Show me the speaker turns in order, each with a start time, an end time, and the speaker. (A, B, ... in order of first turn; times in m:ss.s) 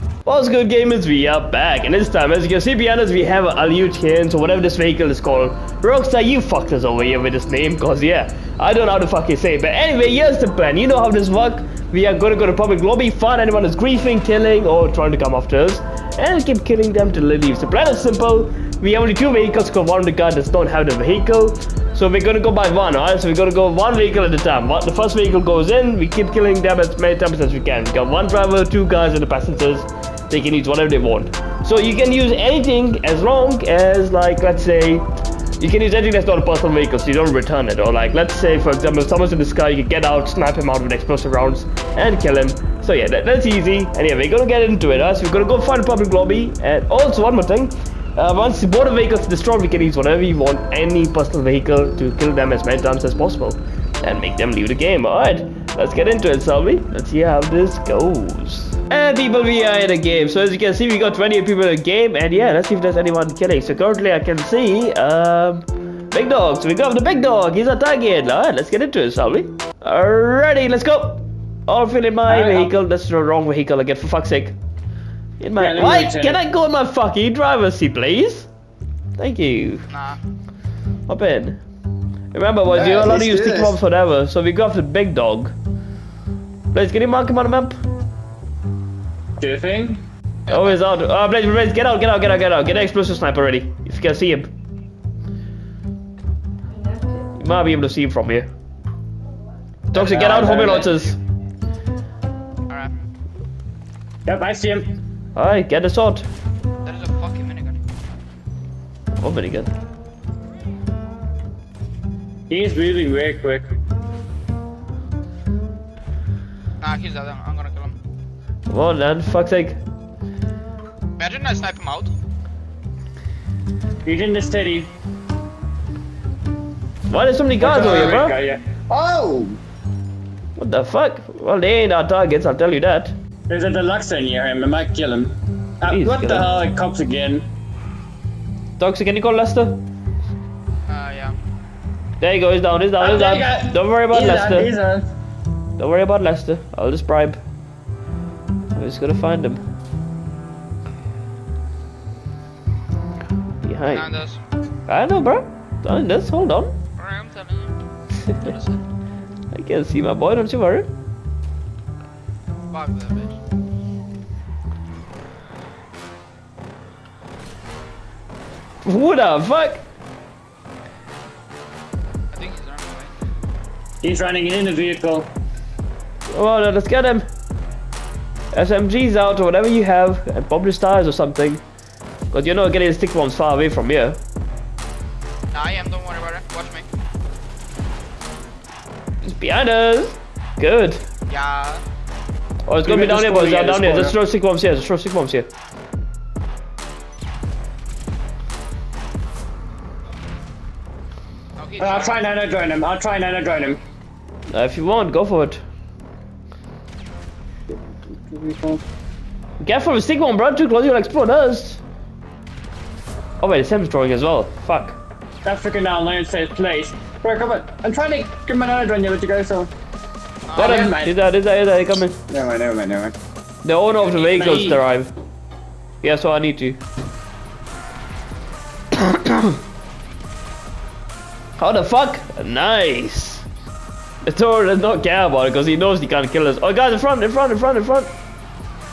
0:00.3-0:35.1 A
0:35.6-1:14.6 A
1:12.3-1:12.8 B
1:15.4-1:18.5 A
1:15.6-1:16.4 B
1:19.2-1:19.8 A
1:19.9-1:20.2 C
1:21.1-1:21.6 A
1:22.3-1:25.5 A
1:22.7-1:23.8 B
1:26.7-1:27.7 A
1:29.4-1:30.0 B
1:30.5-1:34.5 A
1:37.4-1:38.5 A
1:39.9-1:41.2 A
1:39.9-1:40.9 B
1:40.9-1:41.1 C
1:42.7-1:43.0 C
1:44.3-1:44.9 B
1:45.4-1:46.2 A
1:46.8-1:47.8 C
1:49.2-1:49.7 A
1:52.5-1:53.6 B
1:56.8-1:58.0 C
1:58.7-1:59.8 A
2:01.2-2:02.1 C
2:04.0-2:04.9 B
2:07.1-2:08.4 A
2:07.6-2:09.6 B
2:10.6-2:13.1 A
2:13.5-2:17.4 B
2:15.9-2:16.5 A
2:18.8-2:19.8 A
2:20.9-2:21.4 C
2:22.2-2:24.7 A
2:23.0-2:25.1 B
2:25.8-2:27.4 A
2:28.7-2:29.6 A
2:33.6-2:34.1 A
2:33.9-2:34.4 C
2:34.9-2:36.7 A
2:37.0-2:38.8 C
2:39.5-2:40.9 A
2:42.7-2:43.4 C
2:48.8-2:49.8 A
2:52.3-2:53.2 C
2:54.0-2:55.3 B
2:56.3-2:57.2 A
2:58.5-3:01.6 A
3:02.3-3:04.2 A
3:05.5-3:06.9 C
3:09.2-3:11.0 A
3:11.3-3:11.8 C
3:12.7-3:15.5 A
3:12.8-3:14.2 B
3:21.6-3:22.2 C
3:21.8-3:23.8 B
3:24.5-3:25.6 A
3:28.3-3:28.8 B
3:29.6-3:31.8 A
3:33.4-3:35.0 A
3:35.4-3:39.7 B
3:40.5-3:41.0 C
3:40.5-3:41.2 B
3:40.6-3:42.2 A
3:42.3-3:43.1 B
3:43.6-3:45.1 A
3:44.0-3:44.3 C
3:44.2-3:44.8 B
3:46.0-3:46.8 A
3:48.9-3:49.6 A
3:51.6-3:53.4 A
3:54.2-3:58.1 A